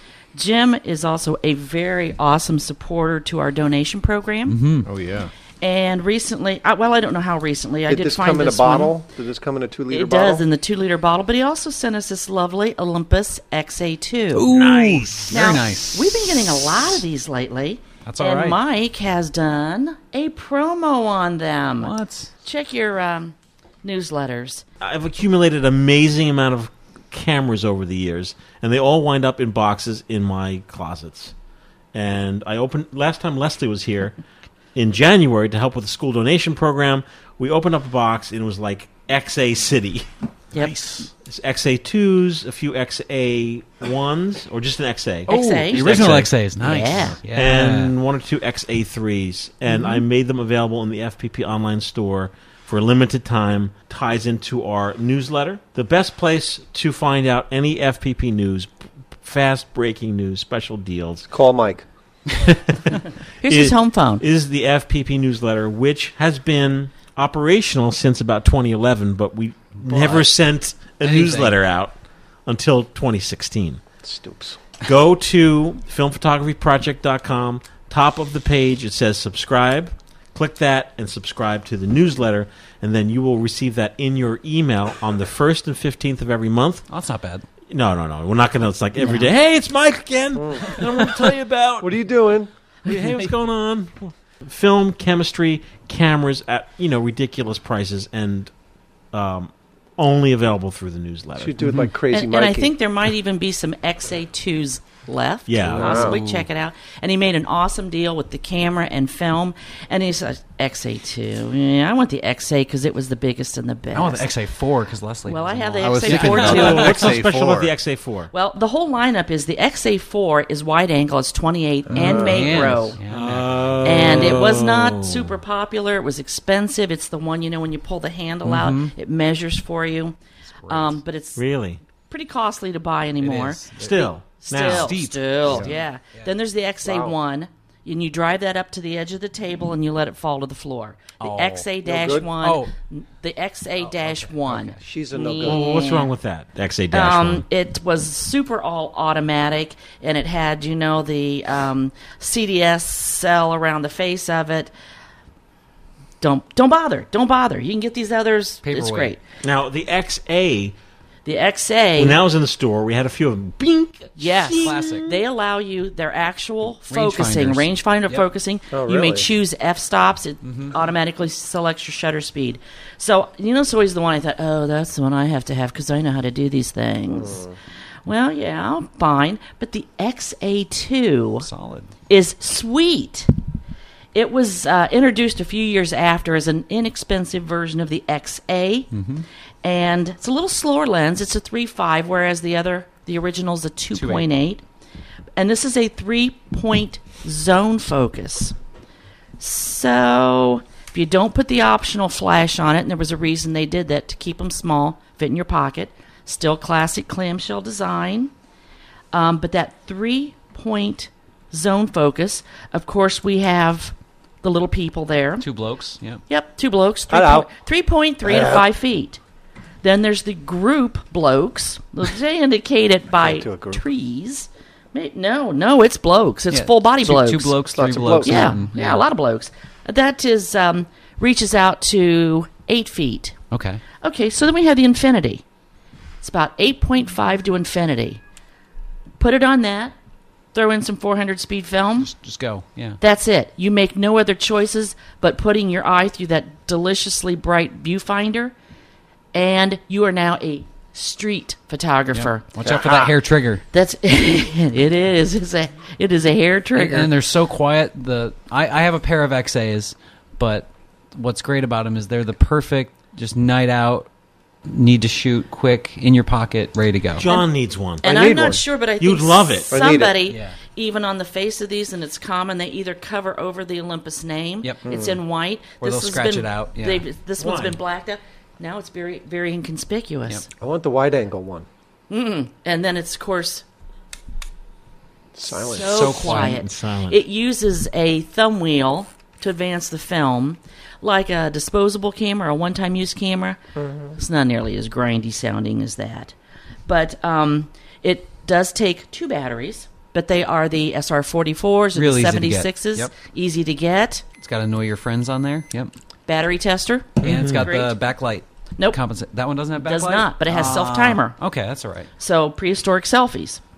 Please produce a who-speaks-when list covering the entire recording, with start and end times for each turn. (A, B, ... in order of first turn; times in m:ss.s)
0:00.3-0:04.6 A
0:04.5-0:04.9 B
0:04.8-0:05.3 C
0:05.6-0:08.9 A
0:07.9-0:10.4 D
0:09.9-0:14.4 A
0:14.3-0:16.3 B
0:14.5-0:15.6 E
0:15.3-0:24.6 A
0:18.0-0:18.6 B
0:21.8-0:22.3 B
0:24.8-0:31.3 E
0:31.9-0:34.2 E
0:34.7-0:40.0 E
0:40.6-0:46.4 E
0:40.6-0:41.1 B
0:45.3-0:47.2 A
0:45.3-0:47.9 B
0:47.2-1:01.3 E
0:49.7-0:50.0 A
1:01.3-1:01.8 D
1:02.3-1:11.9 E
1:03.4-1:04.2 A
1:09.8-1:10.3 B
1:11.0-1:11.6 B
1:12.4-1:13.8 E
1:14.0-1:14.7 D
1:14.8-1:26.8 E
1:26.9-1:27.4 B
1:27.7-1:32.0 E
1:30.4-1:31.1 D
1:31.8-1:32.5 D
1:32.8-1:38.5 E
1:39.1-1:41.6 E
1:41.4-1:42.7 D
1:41.6-1:41.9 B
1:42.1-1:54.3 A
1:45.5-1:46.1 E
1:45.8-1:46.5 B
1:45.8-1:46.2 D
1:53.9-1:57.0 B
1:55.3-1:57.1 A
1:55.8-1:57.7 C
1:56.1-1:58.3 E
1:58.3-2:03.0 A
2:01.9-2:02.7 D
2:01.9-2:04.3 B
2:03.1-2:05.3 E
2:03.8-2:10.2 A
2:08.4-2:08.9 B
2:10.6-2:11.0 B
2:10.7-2:11.4 A
2:11.4-2:11.8 E
2:12.1-2:26.1 A
2:13.2-2:16.3 B
2:13.8-2:15.0 E
2:16.8-2:17.2 D
2:21.2-2:21.7 B
2:21.8-2:22.3 D
2:22.4-2:22.7 B
2:23.8-2:24.8 B
2:24.8-2:25.6 D
2:25.4-2:27.4 E
2:26.9-2:34.7 A
2:36.2-2:39.2 A
2:38.6-2:39.1 B
2:39.4-2:40.7 E
2:41.2-2:42.2 A
2:42.0-2:45.0 E
2:44.2-2:57.4 A
2:44.6-2:45.1 B
2:46.9-2:48.2 B
2:48.7-2:49.3 D
2:50.4-2:50.8 B
2:57.1-2:57.5 D
2:58.0-3:01.5 A
3:01.4-3:01.9 B
3:02.1-3:03.3 A
3:04.1-3:08.9 A
3:08.9-3:09.2 B
3:09.6-3:14.6 A
3:13.9-3:14.3 B
3:15.4-3:18.5 A
3:19.4-3:28.3 A
3:29.1-3:35.4 A
3:35.4-3:36.2 B
3:36.3-3:39.2 A
3:37.1-3:37.5 D
3:38.2-3:38.6 D
3:39.8-3:47.6 A
3:43.2-3:43.8 D
3:46.5-3:49.0 B
3:47.7-3:48.6 D
3:48.2-3:53.4 A
3:53.5-3:53.8 B
3:54.0-3:55.4 A
3:56.2-3:58.2 A
3:59.2-3:59.9 A
4:00.5-4:02.1 A
4:02.0-4:03.0 B
4:03.0-4:08.5 A
4:09.3-4:12.5 A
4:12.1-4:13.6 B
4:12.6-4:13.1 D
4:13.7-4:17.1 A
4:16.7-4:24.1 B
4:24.6-4:27.3 B
4:27.2-4:28.0 E
4:27.2-4:27.5 A
4:28.0-4:40.4 A
4:28.0-4:28.6 D
4:29.0-4:29.7 E
4:29.7-4:30.2 D
4:30.2-4:30.6 B
4:34.8-4:35.2 D
4:35.8-4:37.0 B
4:37.4-4:37.8 E
4:40.6-4:41.6 D
4:42.1-4:43.6 A
4:45.3-4:46.1 D
4:45.5-4:53.6 A
4:45.8-4:46.6 B
4:46.2-4:47.2 E
4:53.8-4:54.1 D
4:54.2-4:56.3 A
4:56.9-5:04.2 A
5:01.9-5:03.1 B
5:04.4-5:05.9 B
5:06.3-5:08.0 A
5:07.2-5:12.1 B
5:07.2-5:07.7 E
5:09.8-5:11.4 A
5:12.2-5:13.6 A